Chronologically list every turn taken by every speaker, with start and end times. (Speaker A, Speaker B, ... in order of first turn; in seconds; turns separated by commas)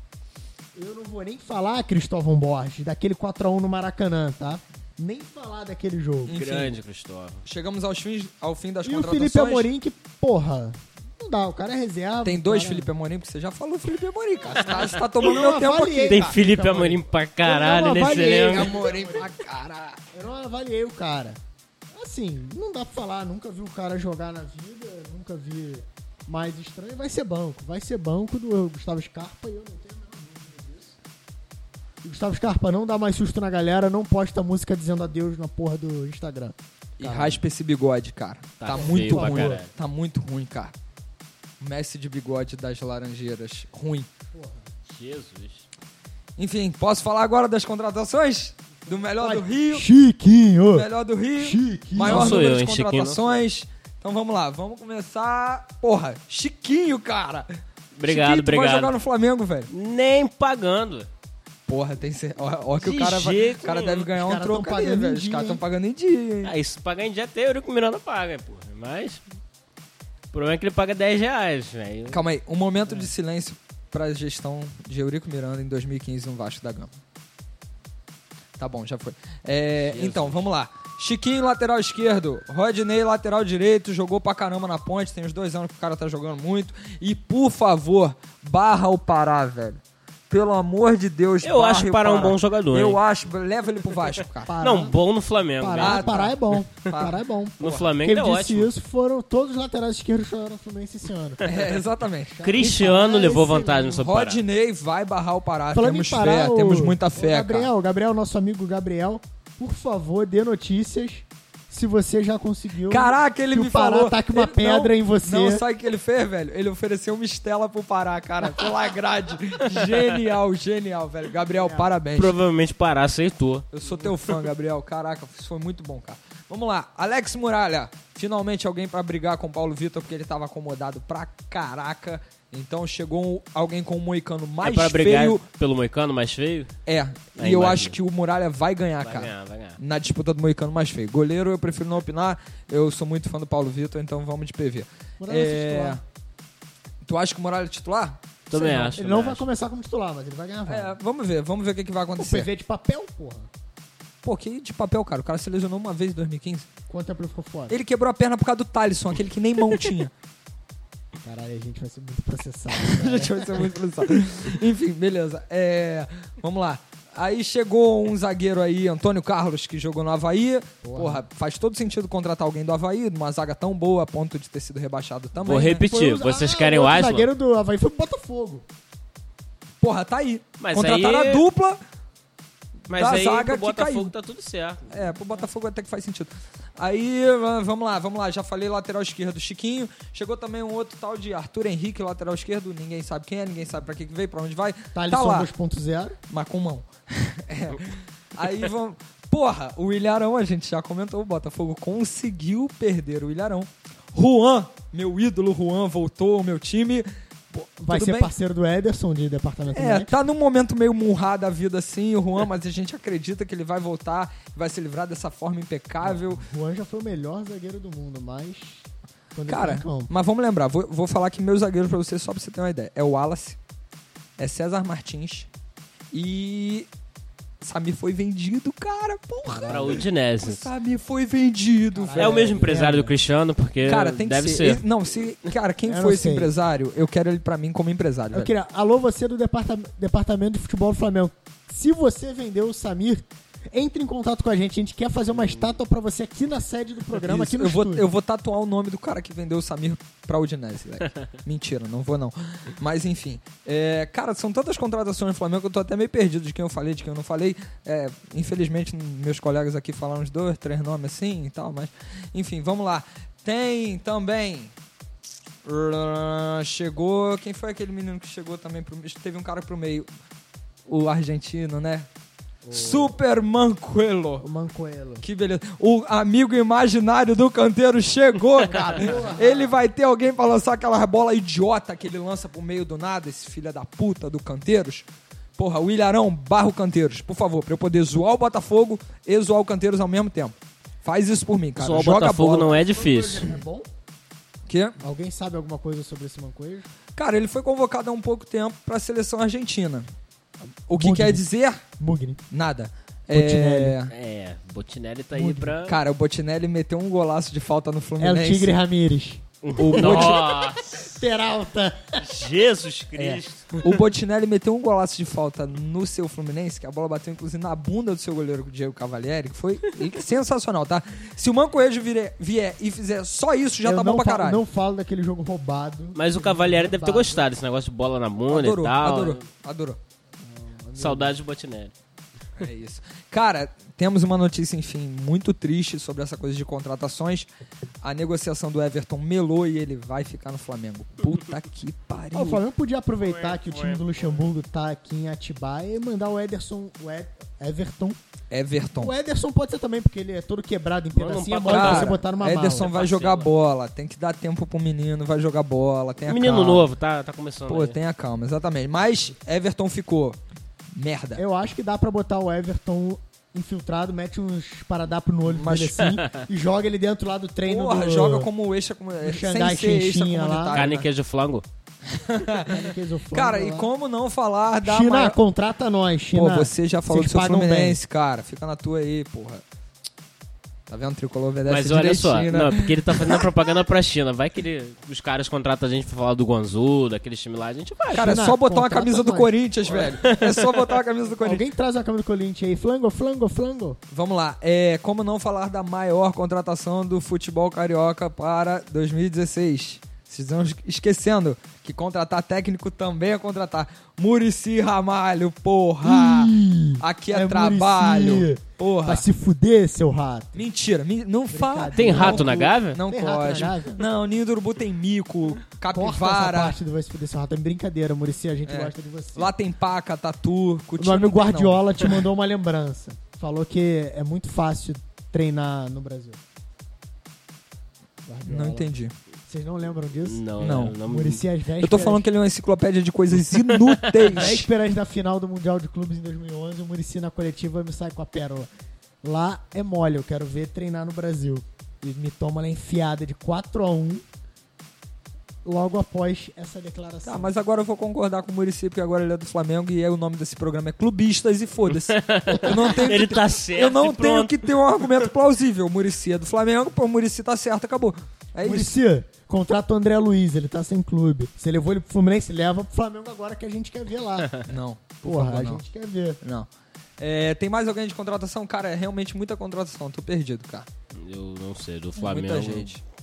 Speaker A: 0.8-6.4, Speaker B: 6.3-6.7, Speaker C: 6.3-7.4, Speaker B: 7.5-9.7, Speaker A: 8.8-12.9, Speaker B: 12.2-16.4, Speaker C: 14.7-14.9, Speaker A: 15.2-19.3, Speaker C: 16.1-18.7, Speaker B: 18.1-20.0, Speaker A: 20.1-21.4, Speaker A: 21.9-31.0, Speaker A: 32.0-37.4, Speaker B: 37.0-40.7, Speaker C: 38.6-39.7, Speaker A: 38.7-39.6, Speaker B: 41.6-44.1, Speaker A: 44.3-44.7, Speaker C: 44.9-45.6, Speaker B: 46.4-49.9, Speaker A: 49.2-52.5, Speaker B: 50.7-57.5, Speaker C: 52.0-53.4, Speaker C: 58.0-58.9, Speaker B: 58.0-59.7, Speaker C: 59.7-61.1, Speaker B: 61.7-66.5, Speaker C: 62.8-64.1, Speaker A: 64.1-65.6, Speaker C: 66.4-69.2, Speaker C: 70.3-72.2, Speaker B: 72.1-76.9, Speaker B: 78.6-94.5, Speaker C: 79.8-80.4, Speaker C: 91.4-93.0, Speaker A: 94.5-95.0, Speaker C: 94.6-96.3, Speaker A: 95.6-101.5, Speaker B: 95.7-97.9, Speaker C: 97.6-98.7, Speaker B: 101.4-102.4, Speaker A: 102.3-104.0, Speaker C: 102.4-104.4, Speaker B: 104.0-107.7, Speaker A: 105.7-115.6, Speaker B: 112.9-122.4, Speaker A: 121.6-121.9, Speaker C: 122.2-124.1, Speaker B: 123.7-135.4, Speaker C: 134.6-136.7, Speaker B: 136.9-146.0, Speaker C: 137.4-138.0, Speaker C: 139.0-139.8, Speaker A: 145.2-146.0, Speaker B: 147.0-148.2, Speaker C: 148.5-149.4, Speaker A: 148.5-151.0, Speaker B: 150.7-152.5, Speaker A: 152.2-153.5, Speaker B: 154.2-156.7, Speaker A: 156.9-157.8, Speaker B: 157.7-160.1, Speaker A: 161.2-163.7, Speaker B: 162.7-175.8, Speaker A: 170.8-171.2, Speaker C: 175.4-177.3, Speaker A: 175.8-178.7, Speaker B: 179.8-181.8, Speaker C: 180.6-181.4, Speaker C: 182.9-185.0, Speaker B: 182.9-184.1, Speaker B: 184.9-195.5, Speaker A: 194.9-196.2, Speaker B: 196.3-208.3, Speaker A: 207.8-210.2, Speaker B: 209.7-216.5, Speaker A: 216.0-220.1, Speaker B: 219.5-223.6, Speaker B: 224.4-225.5, Speaker B: 226.1-226.9, Speaker B: 227.6-232.6, Speaker C: 229.6-230.7, Speaker A: 229.6-230.0, Speaker A: 231.9-233.1, Speaker C: 232.2-234.8, Speaker B: 233.8-238.5, Speaker A: 235.9-236.5, Speaker A: 238.3-248.1, Speaker B: 247.2-264.7, Speaker B: 265.6-270.1, Speaker B: 270.9-272.1, Speaker A: 272.6-273.2, Speaker B: 272.7-274.5, Speaker A: 274.4-275.2, Speaker B: 275.2-292.8, Speaker A: 278.7-279.8, Speaker C: 291.8-293.6, Speaker A: 292.6-293.9, Speaker B: 294.7-295.0, Speaker A: 295.0-296.9, Speaker B: 297.1-300.1, Speaker A: 300.9-301.4, Speaker B: 300.9-301.8, Speaker A: 302.0-302.4, Speaker B: 302.5-304.1, Speaker A: 303.3-304.0, Speaker C: 304.1-306.0, Speaker A: 305.3-305.8, Speaker B: 305.9-308.8, Speaker A: 308.2-312.5, Speaker C: 309.6-311.0, Speaker B: 309.8-310.4, Speaker C: 312.2-313.9, Speaker B: 313.2-324.6, Speaker A: 323.8-327.5, Speaker C: 326.1-329.4, Speaker B: 328.5-330.0, Speaker A: 330.4-331.4, Speaker C: 331.0-331.9, Speaker B: 332.6-337.5, Speaker B: 338.0-342.6, Speaker A: 342.3-348.2, Speaker C: 343.2-344.2, Speaker B: 348.5-349.1, Speaker A: 349.0-352.9, Speaker C: 351.1-353.5, Speaker B: 351.7-356.9, Speaker C: 356.3-358.0, Speaker B: 357.7-360.4, Speaker B: 360.9-361.4, Speaker A: 361.4-368.5, Speaker B: 365.5-366.0, Speaker C: 366.0-366.3, Speaker B: 367.7-371.1, Speaker A: 369.2-370.8, Speaker C: 370.7-371.6, Speaker B: 372.1-375.4, Speaker A: 372.6-373.9, Speaker A: 374.8-378.0, Speaker B: 376.3-379.6, Speaker B: 380.9-383.5, Speaker C: 381.7-388.4, Speaker A: 388.1-390.1, Speaker B: 388.1-391.6, Speaker C: 390.2-390.9, Speaker A: 391.4-394.0, Speaker B: 394.1-409.2, Speaker A: 406.0-410.6, Speaker B: 410.6-416.8, Speaker A: 411.5-414.0, Speaker C: 412.0-413.0, Speaker A: 415.9-419.5, Speaker B: 418.6-422.1, Speaker A: 421.0-426.4, Speaker A: 428.2-428.9, Speaker B: 428.4-429.1, Speaker A: 429.5-430.5, Speaker C: 430.2-431.4, Speaker B: 430.6-431.0, Speaker A: 431.0-432.3, Speaker B: 431.8-434.7, Speaker C: 433.5-434.4, Speaker A: 434.4-438.7, Speaker A: 439.2-444.2, Speaker A: 445.6-447.5, Speaker B: 447.2-459.0, Speaker C: 452.1-455.2, Speaker A: 452.5-453.2, Speaker A: 458.6-464.5, Speaker B: 464.7-465.8, Speaker A: 465.2-466.4, Speaker B: 466.4-466.7, Speaker B: 467.2-470.9, Speaker C: 471.1-473.0, Speaker B: 472.2-473.0